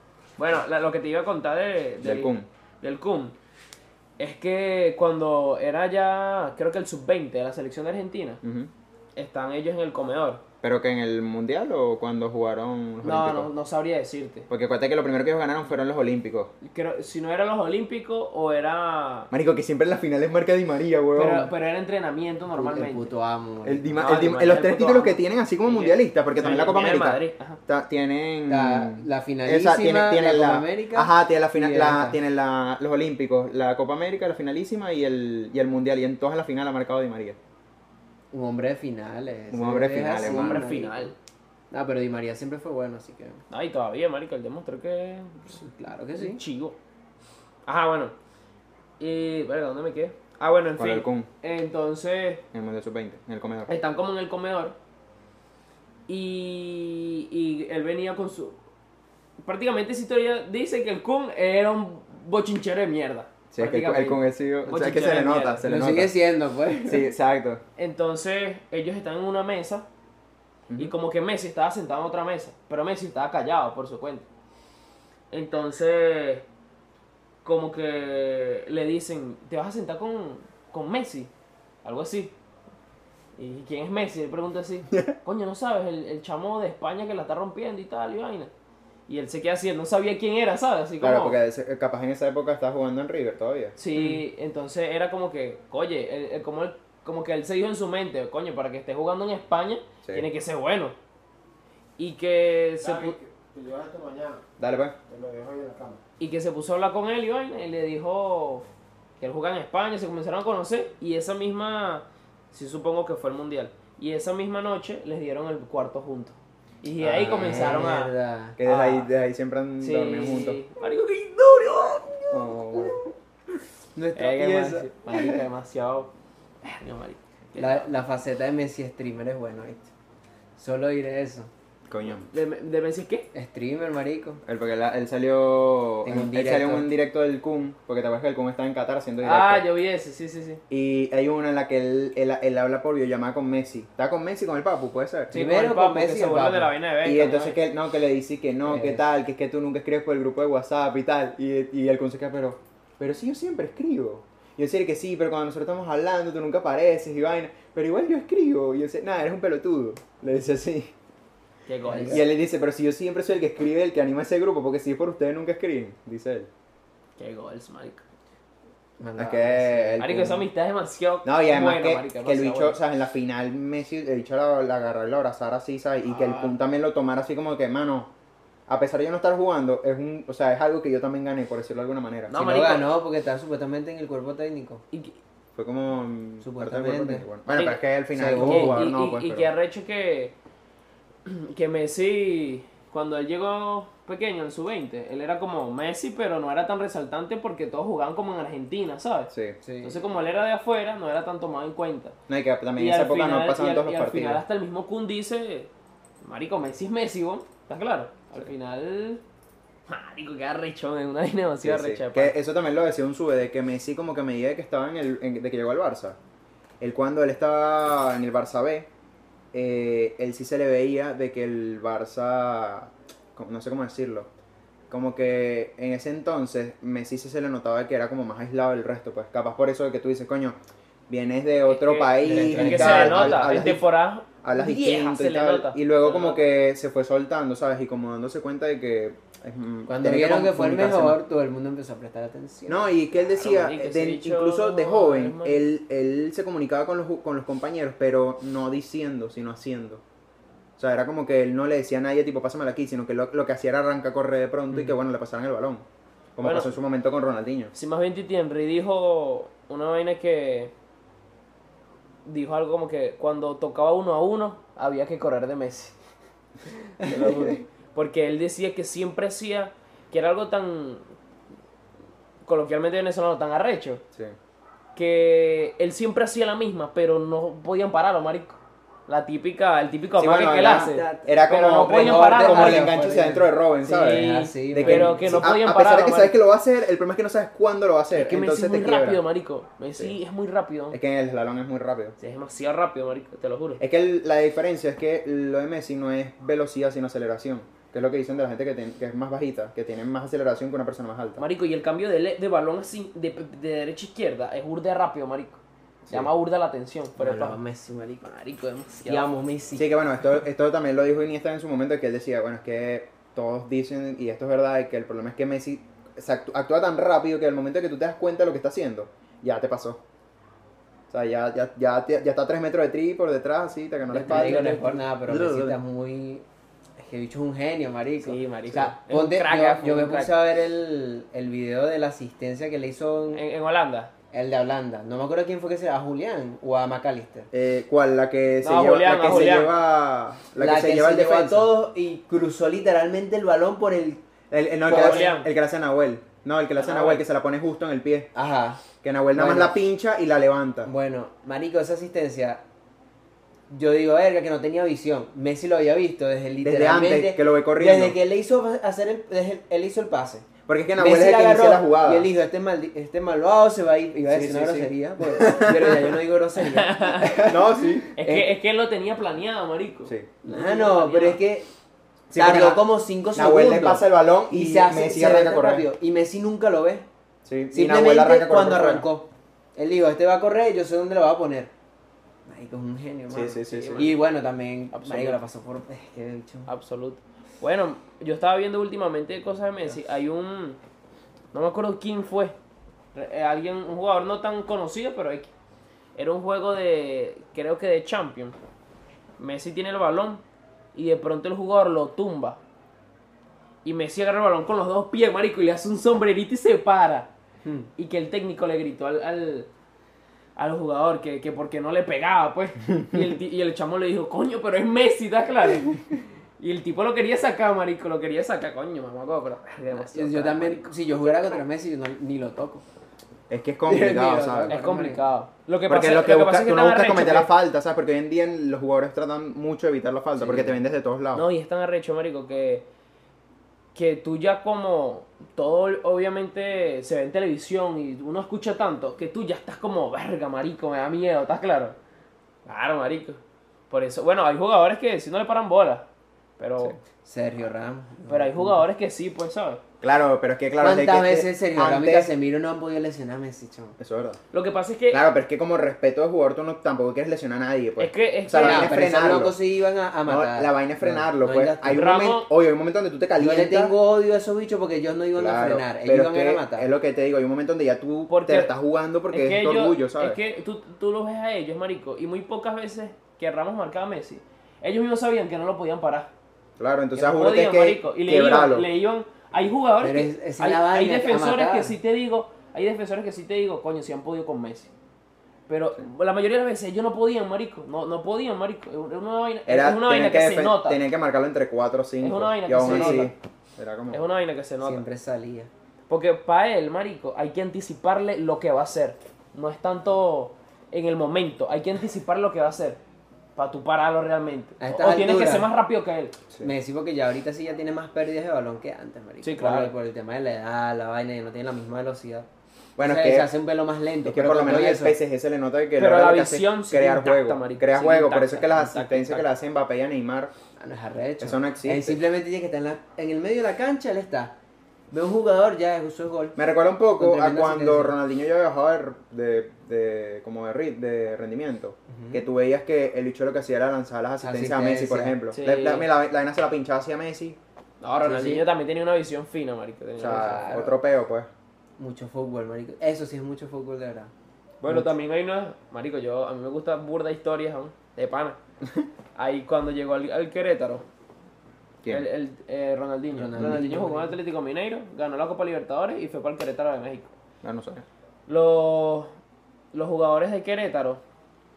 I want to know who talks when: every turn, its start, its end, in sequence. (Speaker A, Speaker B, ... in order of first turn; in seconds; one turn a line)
Speaker A: 0.4-3.3
Speaker B: 2.0-2.5
Speaker A: 4.2-8.4
Speaker B: 8.4-8.7
Speaker A: 9.2-10.4
Speaker B: 10.6-13.5
Speaker A: 13.0-14.5
Speaker B: 14.5-16.5
Speaker A: 16.6-19.3
Speaker B: 19.3-21.5
Speaker A: 21.1-23.1
Speaker C: 22.5-24.0
Speaker B: 23.6-37.4
Speaker A: 24.0-27.6
Speaker C: 28.5-32.2
Speaker C: 38.3-41.1
Speaker B: 39.5-40.7
Speaker A: 40.2-41.1
Speaker C: 41.7-43.4
Speaker A: 43.5-45.6
Speaker C: 45.5-46.4
Speaker A: 46.1-46.8
Speaker A: 47.6-48.1
Speaker A: 49.0-52.4
Speaker B: 50.8-51.3
Speaker B: 52.5-53.7
Speaker A: 53.7-54.7
Speaker A: 56.1-58.5
Speaker A: 59.4-65.6
Speaker B: 63.5-66.1
Speaker C: 65.6-67.1
Speaker B: 66.8-67.6
Speaker A: 67.8-69.9
Speaker A: 70.8-74.2
Speaker A: 75.3-76.4
Speaker A: 77.4-81.3
Speaker A: 81.8-82.3
Speaker A: 83.3-88.5
Speaker A: 89.1-91.4
Speaker B: 91.0-93.7
Speaker A: 93.8-100.9
Speaker A: 102.0-103.1
Speaker D: 102.8-104.4
Speaker B: 104.6-105.0
Speaker D: 105.1-106.0
Speaker A: 106.2-108.6
Speaker A: 109.2-118.1
Speaker B: 117.0-117.6
Speaker C: 117.0-118.6
Speaker B: 118.6-120.6
Speaker A: 118.6-119.1
Speaker A: 119.8-122.8
Speaker B: 122.3-122.9
Speaker C: 123.9-125.4
Speaker A: 124.2-126.1
Speaker A: 126.6-127.9
Speaker C: 127.5-129.9
Speaker C: 130.6-131.5
Speaker B: 131.9-132.2
Speaker A: 132.1-133.3
Speaker C: 133.3-134.4
Speaker B: 134.4-139.7
Speaker C: 136.0-136.9
Speaker A: 139.2-140.6
Speaker B: 140.7-145.3
Speaker C: 145.3-146.7
Speaker A: 145.3-147.6
Speaker B: 147.0-160.9
Speaker C: 148.7-149.0
Speaker A: 161.7-162.2
Speaker C: 161.9-162.2
Speaker B: 162.0-166.5
Speaker A: 167.2-168.0
Speaker C: 169.0-170.0
Speaker B: 169.2-170.5
Speaker A: 170.0-172.8
Speaker B: 171.2-178.1
Speaker A: 176.1-176.6
Speaker B: 178.7-182.3
Speaker A: 182.3-182.9
Speaker C: 182.3-184.8
Speaker A: 184.9-185.2
Speaker B: 185.6-189.5
Speaker C: 186.4-187.2
Speaker A: 187.5-190.3
Speaker C: 188.1-188.8
Speaker A: 191.2-202.2
Speaker B: 199.3-199.6
Speaker C: 199.6-200.0
Speaker B: 202.3-204.4
Speaker A: 202.8-205.7
Speaker A: 206.2-209.2
Speaker A: 209.9-212.3
Speaker B: 211.6-216.2
Speaker B: 216.8-218.9
Speaker B: 219.5-224.3
Speaker B: 224.9-230.6
Speaker B: 231.1-233.8
Speaker A: 231.7-236.4
Speaker C: 232.2-233.7
Speaker B: 234.4-241.2
Speaker C: 239.9-242.9
Speaker B: 242.7-250.0
Speaker A: 243.4-245.6
Speaker B: 250.8-255.8
Speaker B: 256.4-257.7
Speaker A: 256.4-256.7
Speaker A: 257.7-260.7
Speaker A: 262.2-265.9
Speaker A: 266.9-271.0
Speaker C: 267.0-267.4
Speaker A: 272.4-274.0
Speaker A: 274.9-282.9
Speaker B: 280.2-289.2
Speaker C: 280.7-285.5
Speaker A: 283.9-286.4
Speaker A: 288.1-291.0
Speaker B: 290.9-292.1
Speaker A: 292.2-293.8
Speaker B: 293.8-301.4
Speaker A: 301.4-305.6
Speaker A: 306.1-307.6
Speaker C: 307.2-308.3
Speaker A: 308.2-309.3
Speaker C: 309.0-309.9
Speaker B: 309.8-320.0
Speaker B: 321.1-325.8
Speaker C: 324.1-326.4
Speaker A: 324.1-325.0
Speaker C: 327.0-333.4
Speaker A: 328.2-330.3
Speaker A: 333.3-334.1
Speaker C: 334.3-337.5
Speaker B: 337.5-341.7
Speaker A: 338.6-339.7
Speaker C: 340.6-344.2
Speaker B: 344.5-348.3
Speaker C: 344.9-345.3
Speaker A: 344.9-345.5
Speaker A: 346.8-347.2
Speaker C: 348.3-348.8
Speaker B: 349.0-350.9
Speaker C: 349.3-349.8
Speaker C: 350.8-352.6
Speaker C: 353.7-368.4
Speaker B: 356.6-358.2
Speaker B: 360.7-362.3
Speaker B: 364.3-366.1
Speaker A: 366.6-367.4
Speaker B: 367.5-368.1
Speaker A: 368.1-371.4
Speaker C: 370.4-371.7
Speaker B: 372.3-375.9
Speaker C: 372.3-377.1
Speaker B: 377.4-379.1
Speaker C: 377.7-381.7
Speaker C: 382.4-386.7
Speaker B: 383.3-384.1
Speaker A: 383.7-384.1
Speaker A: 384.9-385.4
Speaker A: 386.7-390.8
Speaker A: 391.5-392.5
Speaker A: 393.1-395.5
Speaker A: 396.1-398.6
Speaker A: 399.4-400.4
Speaker A: 400.9-402.6
Speaker A: 403.8-407.3
Speaker A: 408.0-409.7
Speaker A: 410.6-421.5
Speaker C: 419.9-422.8
Speaker B: 423.5-424.7
Speaker C: 423.8-425.2
Speaker A: 424.7-427.5
Speaker B: 425.9-431.5
Speaker C: 430.4-430.7
Speaker A: 431.3-432.8
Speaker A: 433.9-441.9
Speaker A: 442.6-443.4
Speaker A: 443.9-446.1
Speaker A: 446.6-447.0
Speaker C: 447.2-448.8
Speaker A: 448.3-449.8
Speaker B: 450.0-452.3
Speaker C: 450.8-454.0
Speaker B: 454.0-454.4
Speaker A: 454.5-455.2
Speaker B: 455.1-459.6
Speaker A: 458.0-459.0
Speaker C: 458.6-462.0
Speaker B: 460.2-463.9
Speaker A: 461.9-462.5
Speaker C: 463.4-466.9
Speaker B: 465.4-470.4
Speaker A: 468.3-468.7
Speaker A: 469.3-476.3
Speaker B: 476.8-478.9
Speaker A: 477.1-484.9
Speaker C: 480.0-481.9
Speaker A: 485.7-491.0
Speaker B: 489.7-494.2
Speaker A: 492.2-493.3
Speaker C: 492.8-493.3
Speaker A: 494.1-495.0
Speaker C: 494.8-495.7
Speaker A: 496.1-503.0
Speaker A: 503.6-506.3
Speaker C: 504.8-505.7
Speaker C: 506.6-512.5
Speaker A: 509.4-509.9
Speaker B: 513.0-513.5
Speaker C: 513.0-515.2
Speaker B: 514.2-520.5
Speaker A: 516.0-519.5
Speaker C: 520.8-524.5
Speaker B: 521.4-522.2
Speaker C: 525.1-526.6
Speaker B: 526.5-537.6
Speaker C: 527.2-528.1
Speaker C: 532.1-532.4
Speaker C: 534.4-535.4
Speaker A: 535.5-536.1
Speaker A: 538.0-540.7
Speaker C: 538.2-538.6
Speaker B: 540.2-541.5
Speaker C: 540.2-541.0
Speaker C: 542.0-544.3
Speaker A: 544.8-548.6
Speaker A: 549.4-551.0
Speaker A: 552.1-557.3
Speaker C: 553.3-554.4
Speaker B: 557.6-558.0
Speaker A: 558.5-559.3
Speaker A: 559.9-561.2